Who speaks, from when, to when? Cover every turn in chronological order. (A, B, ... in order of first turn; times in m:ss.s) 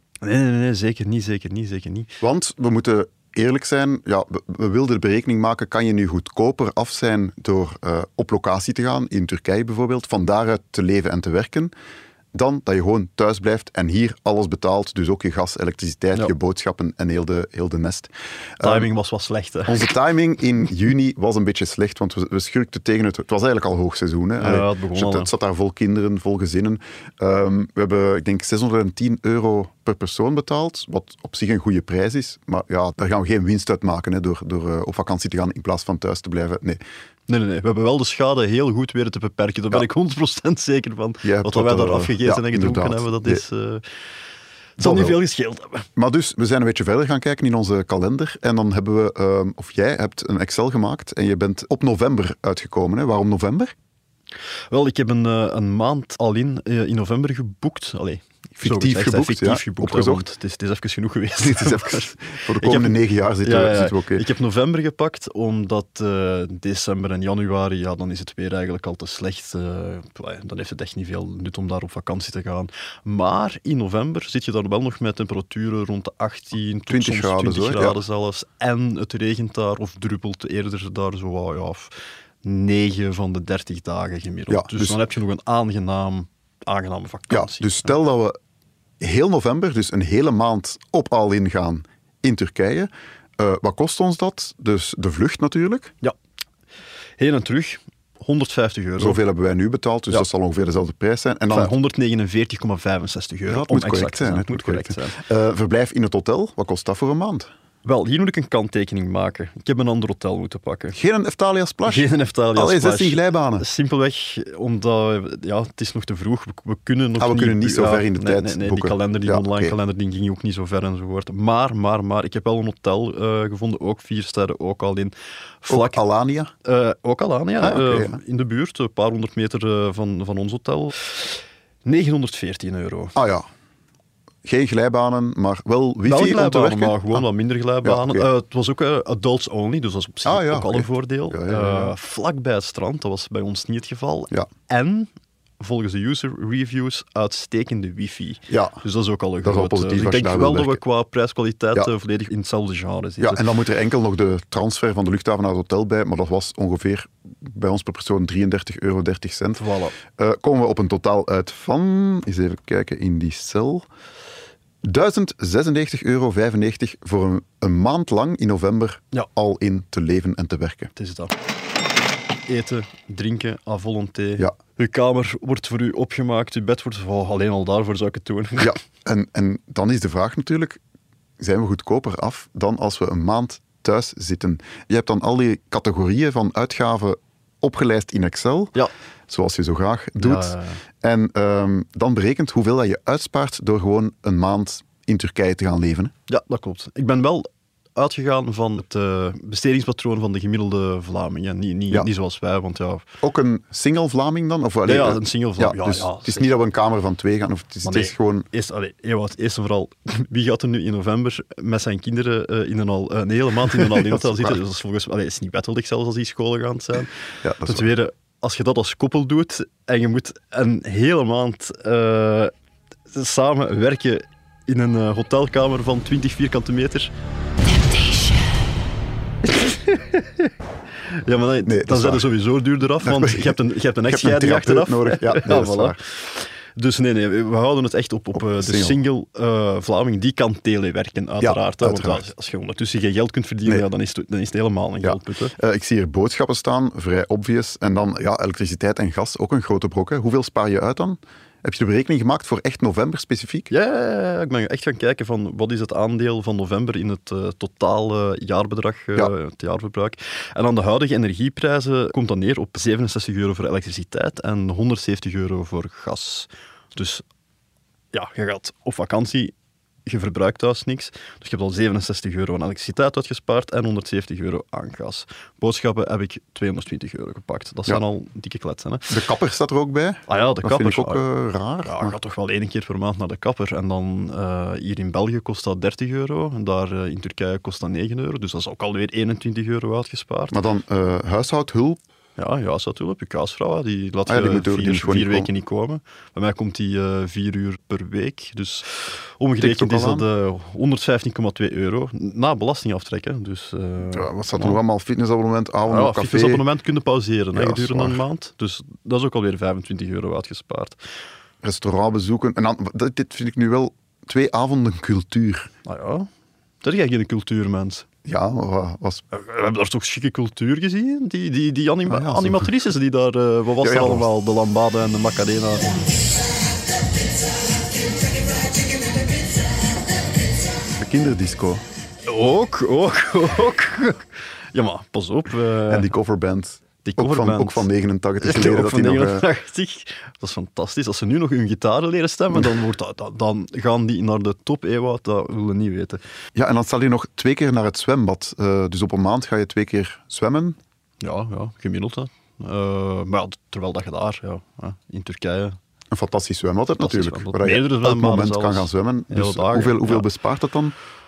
0:00.2-0:02.1 A
0:02.2-0:11.7 B
0:12.3-0:18.9 B
0:18.6-0:19.9 A
0:19.7-0:36.8 B
0:24.4-0:25.3 A
0:37.3-0:43.8 A
0:41.2-0:43.4 B
0:44.8-0:45.2 B
0:44.8-0:45.8 A
0:46.0-0:53.7 B
0:54.7-1:27.9 A
0:58.6-1:00.3 B
1:01.4-1:04.2 B
1:16.9-1:18.0 B
1:24.5-1:25.0 B
1:27.3-1:28.4 B
1:29.0-1:35.9 B
1:37.2-1:39.2 A
1:39.0-1:41.7 B
1:41.5-1:45.2 A
1:43.5-1:47.5 B
1:47.8-1:51.0 A
1:50.9-1:53.6 B
1:51.8-2:06.0 A
1:57.2-1:59.8 B
2:05.7-2:06.5 B
2:06.6-2:13.2 A
2:07.6-2:08.2 B
2:13.1-2:13.5 B
2:14.4-2:17.2 B
2:16.0-2:25.1 A
2:17.8-2:18.3 B
2:20.2-2:21.9 B
2:25.6-2:33.4 A
2:28.5-2:28.8 B
2:29.4-2:30.8 B
2:33.2-2:43.9 B
2:39.6-2:40.0 A
2:44.8-2:50.9 B
2:51.0-2:51.3 A
2:52.5-2:58.8 A
2:58.6-3:00.8 B
3:01.4-3:08.8 B
3:09.3-3:16.1 B
3:10.2-3:10.8 A
3:16.3-3:23.0 A
3:23.2-3:28.4 B
3:24.8-3:26.5 A
3:27.8-3:37.1 A
3:33.7-3:34.6 B
3:37.4-3:37.9 B
3:37.6-3:42.5 A
3:43.1-3:47.1 A
3:49.4-3:50.5 A
3:51.1-4:05.5 A
3:51.6-3:52.3 B
3:53.0-3:56.0 B
3:58.3-3:59.0 B
4:01.4-4:02.2 B
4:05.0-4:13.7 B
4:13.7-4:27.2 A
4:28.1-4:29.5 A
4:30.0-4:39.2 A
4:39.1-4:42.2 B
4:40.3-4:41.2 A
4:41.8-4:50.6 A
4:50.5-4:52.0 B
4:52.4-5:04.8 A
4:54.3-4:55.5 B
4:59.6-5:00.3 B
5:04.1-5:06.6 B
5:05.9-5:11.0 A
5:07.5-5:08.2 B
5:11.6-5:15.7 B
5:15.8-5:16.3 A
5:16.8-5:18.0 A
5:18.2-5:19.2 B
5:19.3-5:26.0 A
5:22.1-5:22.7 B
5:23.8-5:24.3 B
5:31.0-5:31.8 B
5:32.3-5:36.1 A
5:35.9-5:39.4 B
5:37.0-5:37.9 A
5:38.4-5:46.2 A
5:46.6-5:50.8 B
5:51.2-5:55.8 A
5:56.1-6:00.9 B
5:57.0-6:00.3 A